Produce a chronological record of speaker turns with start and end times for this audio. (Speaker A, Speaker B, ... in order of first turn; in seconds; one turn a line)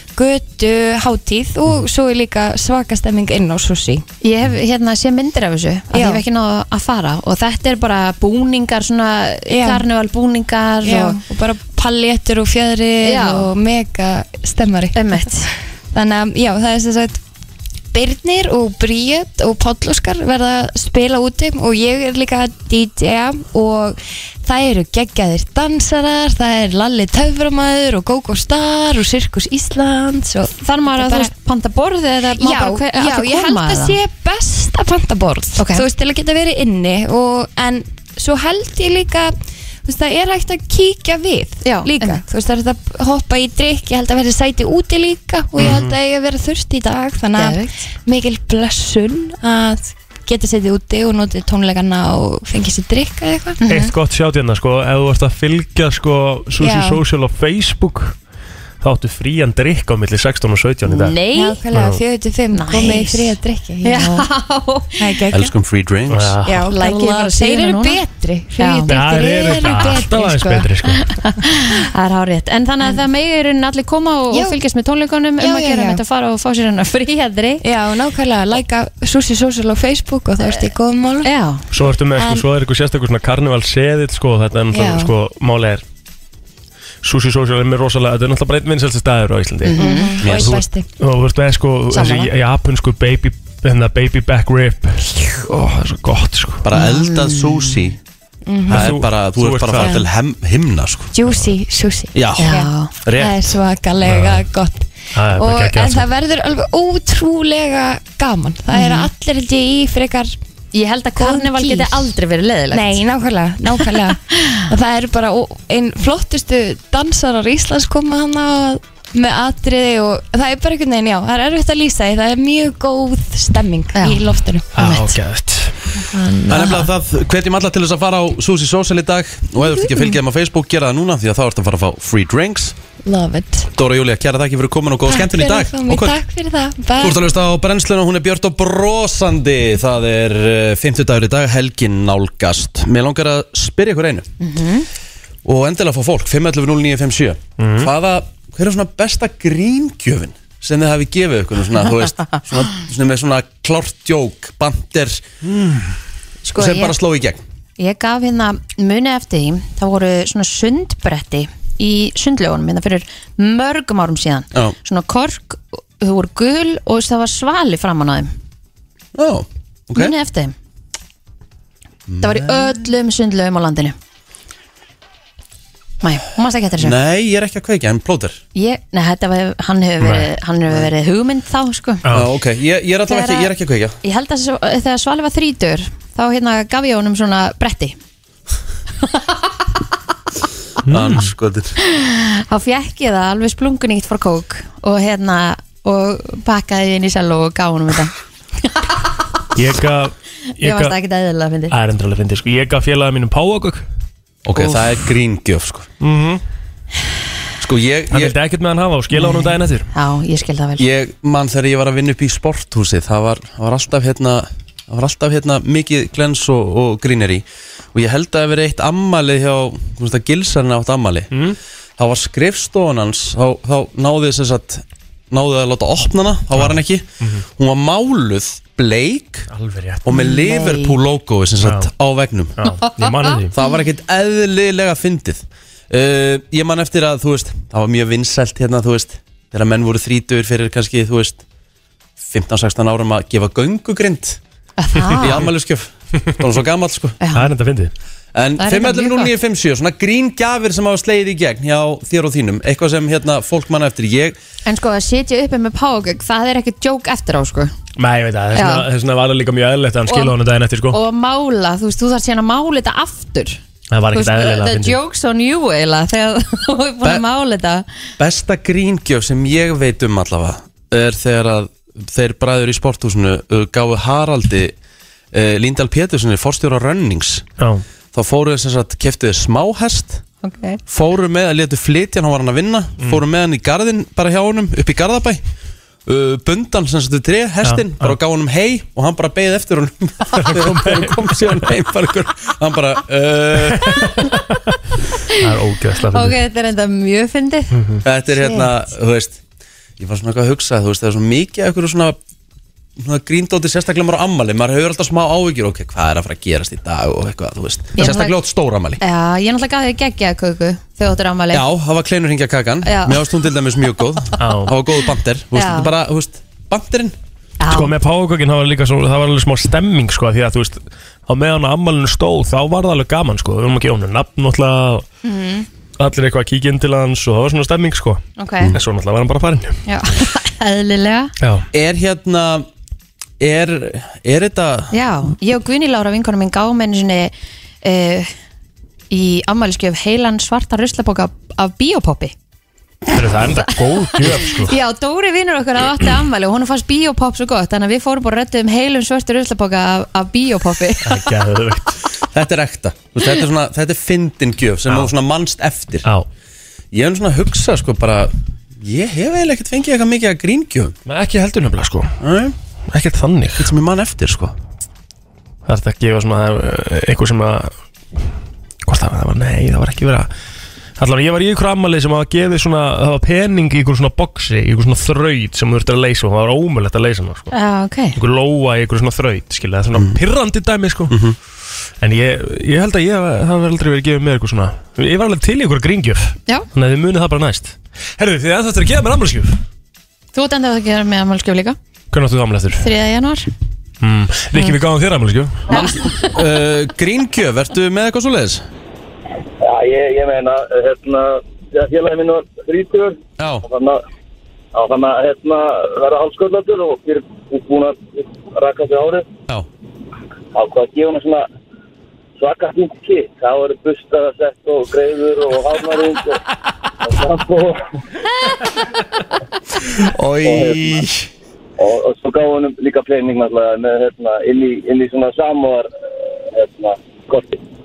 Speaker A: 0.1-4.0
Speaker B: 4.2-11.2
Speaker A: 5.9-6.2
Speaker A: 9.5-9.8
Speaker A: 10.8-17.2
Speaker B: 13.0-13.5
Speaker B: 14.9-15.5
Speaker A: 17.9-31.3
Speaker B: 30.6-34.0
Speaker A: 32.4-39.3
Speaker B: 35.6-35.8
Speaker A: 39.8-53.6
Speaker B: 41.6-42.2
Speaker B: 47.4-47.7
Speaker B: 53.6-53.9
Speaker C: 53.6-58.1
Speaker A: 56.6-57.0
Speaker C: 58.8-61.2
Speaker B: 60.9-61.6
Speaker A: 61.3-64.3
Speaker C: 61.7-62.0
Speaker B: 62.5-65.2
Speaker A: 65.0-65.5
Speaker D: 65.3-66.4
Speaker C: 66.1-66.5
Speaker A: 66.4-70.7
Speaker B: 66.7-68.0
Speaker B: 68.6-68.9
Speaker C: 68.9-71.0
Speaker B: 71.2-77.6
Speaker A: 74.3-74.6
Speaker A: 75.4-76.0
Speaker A: 77.6-81.3
Speaker B: 81.2-81.6
Speaker C: 81.7-85.8
Speaker A: 82.2-82.4
Speaker A: 84.7-85.1
Speaker C: 87.0-89.8
Speaker B: 89.7-90.1
Speaker A: 89.8-90.9
Speaker D: 90.2-90.6
Speaker C: 90.3-96.7
Speaker B: 92.0-92.2
Speaker D: 96.6-98.0
Speaker B: 96.7-97.8
Speaker A: 98.5-98.9
Speaker C: 98.7-100.0
Speaker D: 98.7-101.1
Speaker A: 101.1-110.3
Speaker D: 102.1-103.4
Speaker B: 102.4-102.9
Speaker C: 104.0-104.4
Speaker C: 105.1-106.1
Speaker B: 108.7-109.1
Speaker B: 110.7-113.0
Speaker A: 111.2-112.1
Speaker A: 112.7-124.7
Speaker B: 113.7-114.6
Speaker B: 123.9-125.1
Speaker C: 124.7-125.7
Speaker A: 126.1-126.6
Speaker B: 126.5-126.9
Speaker D: 126.5-132.8
Speaker A: 133.0-133.7
Speaker D: 133.7-136.2
Speaker A: 135.1-137.2
Speaker D: 137.0-144.3
Speaker B: 144.4-144.9
Speaker D: 145.4-155.9
Speaker C: 147.6-147.9
Speaker B: 156.5-156.9
Speaker D: 156.5-157.4
Speaker B: 157.8-168.3
Speaker D: 169.1-170.1
Speaker B: 169.9-170.5
Speaker D: 172.1-172.7
Speaker B: 172.2-173.9
Speaker B: 176.0-176.9
Speaker D: 176.8-178.4
Speaker B: 178.5-182.0
Speaker C: 180.0-180.3
Speaker D: 182.1-183.9
Speaker B: 183.1-183.5
Speaker B: 184.0-187.9
Speaker B: 189.0-189.5
Speaker C: 190.8-191.3
Speaker D: 190.9-191.7
Speaker B: 191.8-199.1
Speaker C: 199.6-200.9
Speaker B: 200.6-201.7
Speaker C: 201.7-203.8
Speaker D: 204.4-205.9
Speaker B: 204.6-204.8
Speaker C: 206.0-206.4
Speaker D: 207.6-208.3
Speaker C: 208.1-209.9
Speaker B: 209.1-210.8
Speaker D: 210.8-221.3
Speaker C: 221.3-221.6
Speaker D: 222.0-229.5
Speaker C: 226.5-227.4
Speaker C: 229.5-230.1
Speaker D: 230.0-232.5
Speaker B: 230.1-231.0
Speaker C: 231.6-231.9
Speaker C: 232.6-233.5
Speaker B: 232.7-233.7
Speaker D: 233.5-241.4
Speaker D: 242.2-244.4
Speaker B: 244.8-245.4
Speaker D: 245.2-247.2
Speaker B: 247.2-247.5
Speaker C: 247.3-247.9
Speaker D: 248.3-254.4
Speaker B: 248.6-249.3
Speaker B: 254.7-257.7
Speaker C: 258.0-261.0
Speaker B: 258.5-258.9
Speaker B: 260.1-260.3
Speaker B: 260.9-263.6
Speaker C: 263.9-265.0
Speaker B: 264.1-267.9
Speaker D: 268.2-274.7
Speaker D: 275.3-277.4
Speaker C: 277.6-277.8
Speaker D: 278.1-280.2
Speaker B: 280.4-280.8
Speaker D: 280.9-285.4
Speaker D: 286.1-294.1
Speaker C: 287.6-288.2
Speaker C: 290.3-291.7
Speaker C: 293.7-294.7
Speaker C: 295.4-296.4
Speaker B: 296.1-297.8
Speaker C: 297.7-298.0
Speaker D: 298.0-299.4
Speaker B: 298.4-298.7
Speaker D: 300.0-302.2
Speaker D: 303.0-309.0
Speaker B: 307.9-308.4
Speaker B: 309.0-311.6
Speaker D: 311.5-317.1
Speaker B: 312.8-313.3
Speaker C: 314.4-314.7
Speaker B: 315.5-315.9
Speaker B: 317.6-317.9
Speaker C: 317.7-325.1
Speaker B: 325.2-325.7
Speaker C: 326.0-329.8
Speaker B: 328.4-328.7
Speaker B: 329.9-331.3
Speaker C: 331.4-331.6
Speaker D: 331.7-332.7
Speaker D: 333.4-334.9
Speaker B: 334.9-338.3
Speaker B: 339.1-342.3
Speaker C: 343.1-344.7
Speaker B: 343.6-351.3
Speaker C: 351.0-352.0
Speaker D: 352.3-356.1
Speaker D: 356.9-360.9
Speaker C: 361.1-362.2
Speaker D: 362.2-362.5
Speaker C: 362.9-363.7
Speaker D: 363.6-364.5
Speaker C: 365.6-367.7
Speaker C: 368.8-370.3
Speaker C: 371.0-377.5
Speaker B: 377.5-378.1
Speaker C: 378.1-381.1
Speaker D: 381.1-381.4
Speaker C: 382.0-389.6
Speaker B: 390.3-391.8
Speaker C: 392.1-392.8
Speaker B: 392.8-393.5
Speaker C: 394.0-395.6
Speaker D: 395.7-398.6
Speaker B: 395.7-396.3
Speaker E: 399.6-404.0
Speaker D: 403.4-403.6
Speaker E: 404.7-409.2
Speaker E: 410.5-411.4
Speaker E: 412.4-416.4
Speaker E: 417.0-417.8
Speaker D: 420.0-421.3
Speaker E: 420.4-421.0
Speaker E: 421.8-425.9
Speaker E: 426.5-427.6